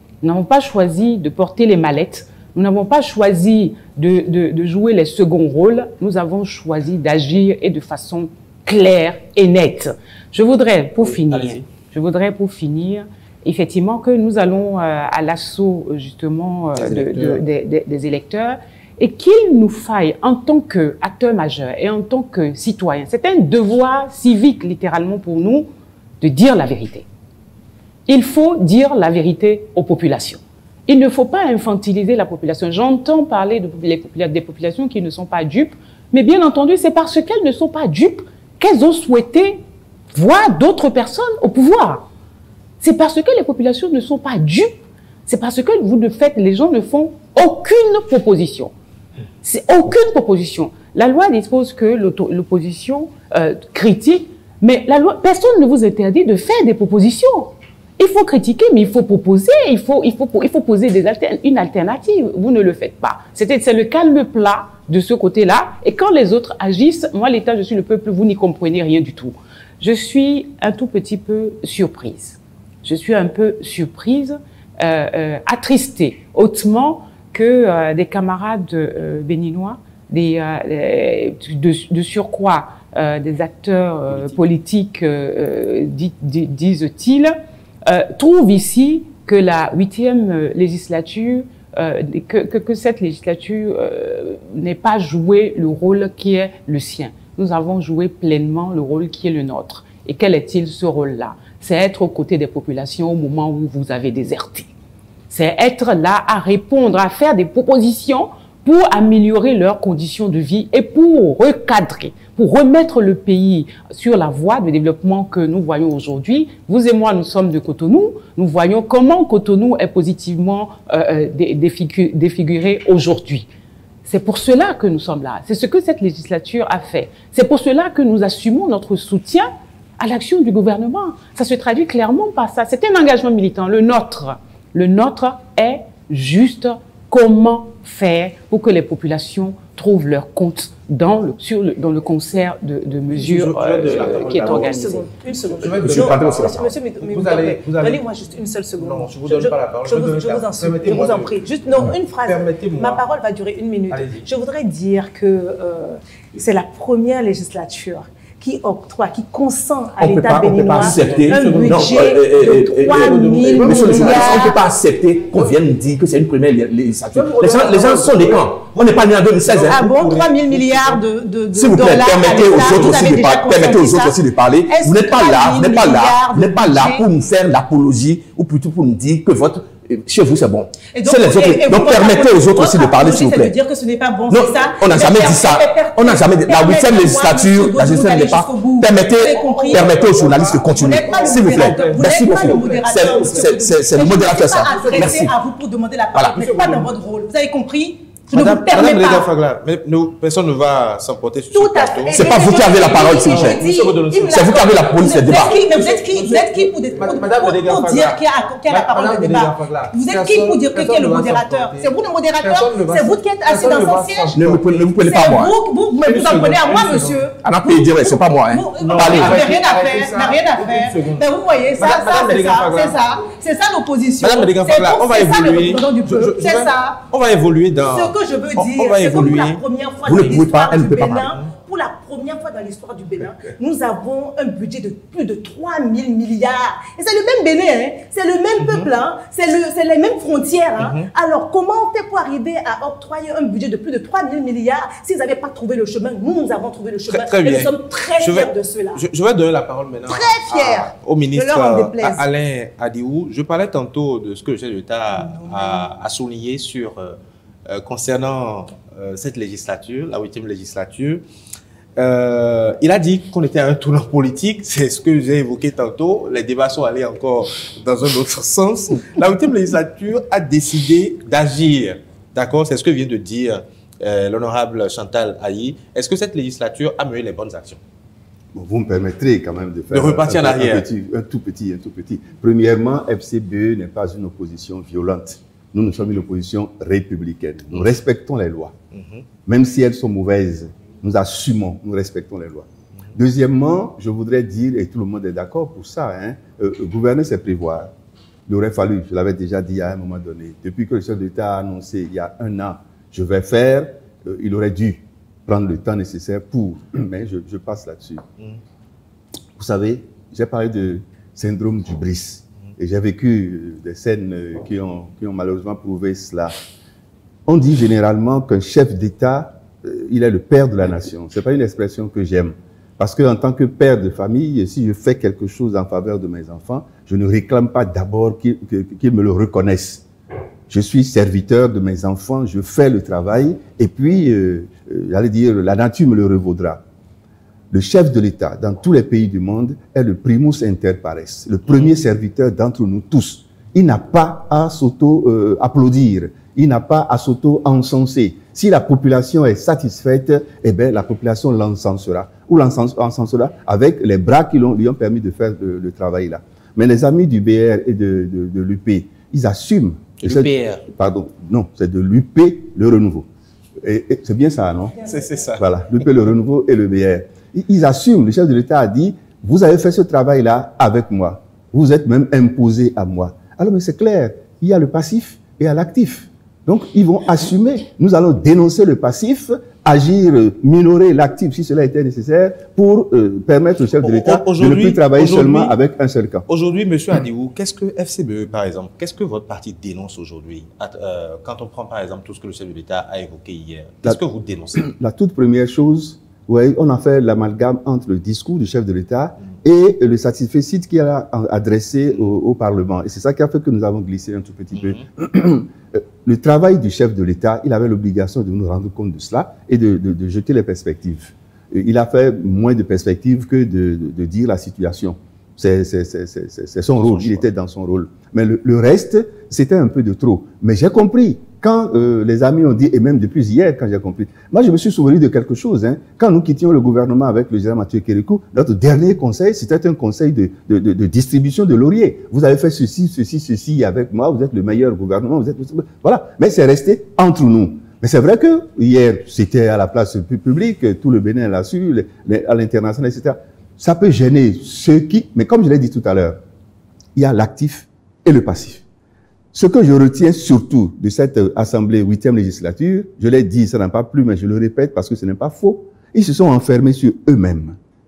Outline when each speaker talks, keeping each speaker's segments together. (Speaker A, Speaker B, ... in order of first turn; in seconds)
Speaker A: 0.2-25.7, 26.2-27.1, 28.1-42.1, 42.8-44.7, 45.3-48.7, 49.4-104.7, 105.3-123.5, 124.0-145.1
Speaker B: 11.0-11.6, 16.8-17.4, 143.1-145.0, 145.6-148.0, 148.8-153.0, 153.9-154.3, 160.7-164.6, 167.1-171.0, 172.3-173.0, 189.4-193.6, 194.7-195.3, 196.3-196.9, 198.3-214.8, 216.0-217.3, 218.8-223.2, 224.2-229.6, 238.6-238.9, 240.8-241.1, 247.1-261.2, 262.0-277.8, 279.9-280.9, 287.7-288.0, 288.9-289.2, 360.2-360.9, 365.0-365.7, 384.0-385.8, 386.5-394.9, 404.7-405.0, 417.1-417.4
Speaker C: 143.9-164.7, 169.6-177.0, 180.9-199.3, 201.5-214.4, 215.0-227.0, 227.8-249.0, 250.1-252.2, 255.1-255.9
Speaker D: 145.6-146.7, 160.0-169.8, 171.5-183.5, 184.3-195.3, 196.1-196.6, 202.1-203.6, 204.3-205.6, 214.3-215.5, 217.4-219.4, 230.0-231.3
Speaker E: 278.5-288.7, 289.4-297.9, 298.5-308.2, 309.6-316.5, 317.5-330.0, 330.7-336.8, 337.7-363.2, 363.8-365.0, 365.6-386.4, 394.7-446.4, 447.1-448.8, 449.5-457.8